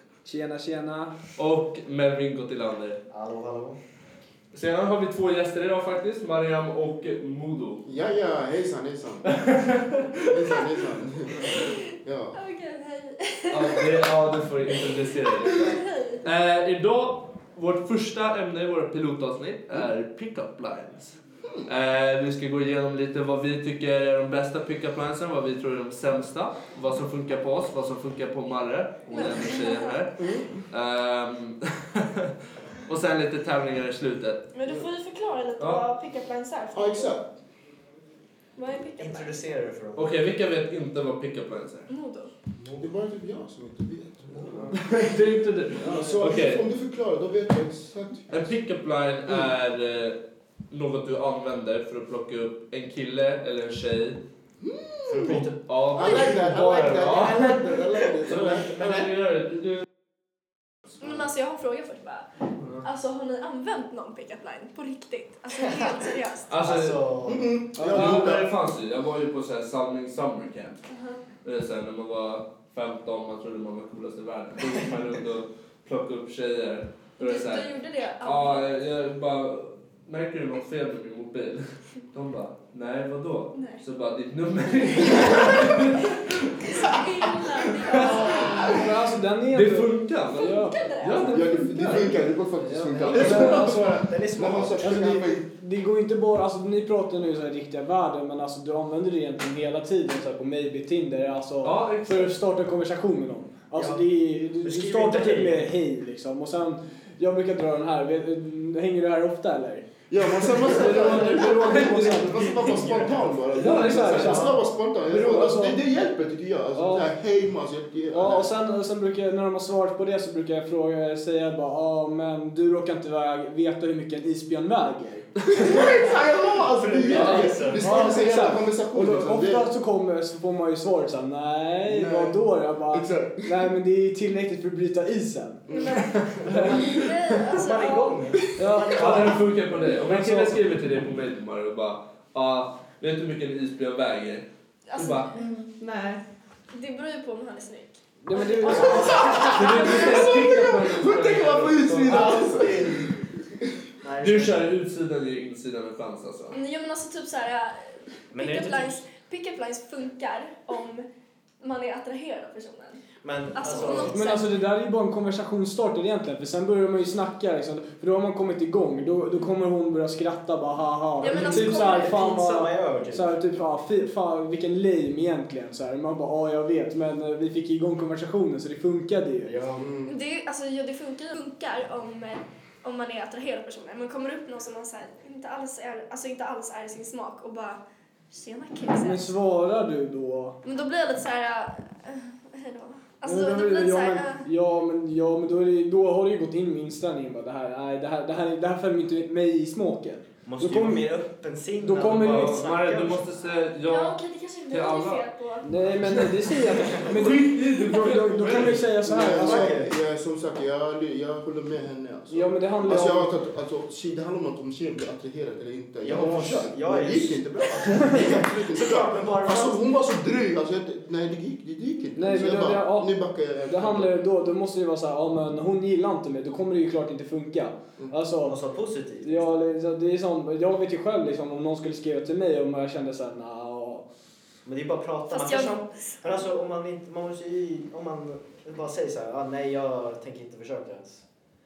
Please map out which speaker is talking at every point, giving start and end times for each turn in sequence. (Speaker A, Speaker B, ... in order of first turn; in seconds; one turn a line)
Speaker A: 0.2-1.1
Speaker B: 1.4-3.0
Speaker C: 3.1-3.8
Speaker B: 4.5-7.8
Speaker D: 7.8-9.3
Speaker B: 9.3-10.3
Speaker D: 10.3-12.3
Speaker E: 11.5-11.8
Speaker E: 12.3-14.1
Speaker B: 13.5-30.1
Speaker E: 14.7-16.3
Speaker E: 29.1-30.0
Speaker D: 30.2-30.6
Speaker B: 30.7-32.3
Speaker B: 32.9-34.4
Speaker E: 34.5-37.1
Speaker D: 36.7-37.3
Speaker E: 38.5-39.4
Speaker C: 39.0-40.1
Speaker B: 40.0-41.9
Speaker E: 41.9-42.3
Speaker D: 42.6-45.2
Speaker C: 44.3-44.8
Speaker B: 44.7-46.6
Speaker A: 45.8-46.4
Speaker D: 45.8-48.4
Speaker B: 48.3-50.2
Speaker B: 50.7-54.2
Speaker D: 54.6-59.1
Speaker C: 55.1-55.5
Speaker B: 55.2-57.6
Speaker C: 57.1-58.4
Speaker B: 58.2-59.8
Speaker E: 61.0-62.3
Speaker E: 62.8-66.5
Speaker C: 65.7-65.9
Speaker B: 66.5-67.0
Speaker C: 66.6-67.4
Speaker D: 67.2-68.6
Speaker A: 67.8-68.3
Speaker B: 67.9-70.8
Speaker E: 70.9-71.2
Speaker B: 71.4-77.7
Speaker E: 77.2-78.8
Speaker B: 78.2-86.9
Speaker E: 83.5-83.8
Speaker E: 85.2-85.8
Speaker E: 86.6-88.8
Speaker B: 87.7-88.6
Speaker A: 87.9-94.0
Speaker B: 89.5-92.2
Speaker E: 90.3-91.7
Speaker D: 91.2-95.5
Speaker C: 92.9-94.9
Speaker A: 94.8-109.8
Speaker B: 101.6-102.3
Speaker C: 103.7-104.0
Speaker C: 104.6-105.7
Speaker D: 110.1-118.5
Speaker B: 110.6-112.8
Speaker A: 110.7-112.6
Speaker C: 112.8-113.2
Speaker A: 113.5-115.8
Speaker B: 113.5-114.5
Speaker C: 114.1-114.5
Speaker A: 116.7-117.1
Speaker A: 118.1-125.3
Speaker D: 125.5-129.7
Speaker C: 125.6-128.2
Speaker B: 127.1-127.5
Speaker A: 127.7-135.7
Speaker D: 131.8-132.4
Speaker D: 132.9-133.7
Speaker D: 135.7-136.8
Speaker E: 135.7-138.4
Speaker B: 136.1-137.4
Speaker C: 136.4-136.8
Speaker C: 137.4-139.5
Speaker A: 138.5-140.6
Speaker B: 138.9-144.4
Speaker E: 144.9-146.2
Speaker B: 145.0-145.3
Speaker E: 146.7-150.2
Speaker A: 148.2-150.2
Speaker C: 148.7-149.4
Speaker D: 148.9-153.7
Speaker B: 149.4-152.5
Speaker C: 152.1-153.1
Speaker C: 154.0-154.7
Speaker B: 154.2-156.6
Speaker E: 156.5-161.1
Speaker C: 158.3-158.9
Speaker E: 161.6-163.0
Speaker C: 163.2-164.2
Speaker E: 163.5-164.5
Speaker A: 164.1-179.5
Speaker E: 171.2-172.4
Speaker C: 171.2-173.4
Speaker C: 179.4-179.9
Speaker D: 179.8-180.2
Speaker E: 180.0-189.2
Speaker A: 188.9-190.6
Speaker E: 190.6-194.4
Speaker A: 193.2-201.1
Speaker C: 200.4-203.4
Speaker A: 201.8-202.6
Speaker B: 202.2-204.2
Speaker E: 203.8-205.8
Speaker B: 204.7-205.3
Speaker A: 205.6-209.9
Speaker D: 206.0-206.3
Speaker C: 206.6-207.2
Speaker B: 207.0-208.9
Speaker D: 209.0-224.2
Speaker C: 209.3-209.9
Speaker A: 212.3-213.3
Speaker C: 216.0-219.8
Speaker A: 222.2-223.1
Speaker A: 223.7-228.6
Speaker C: 228.4-229.5
Speaker A: 229.2-234.1
Speaker C: 234.6-241.2
Speaker E: 235.3-236.4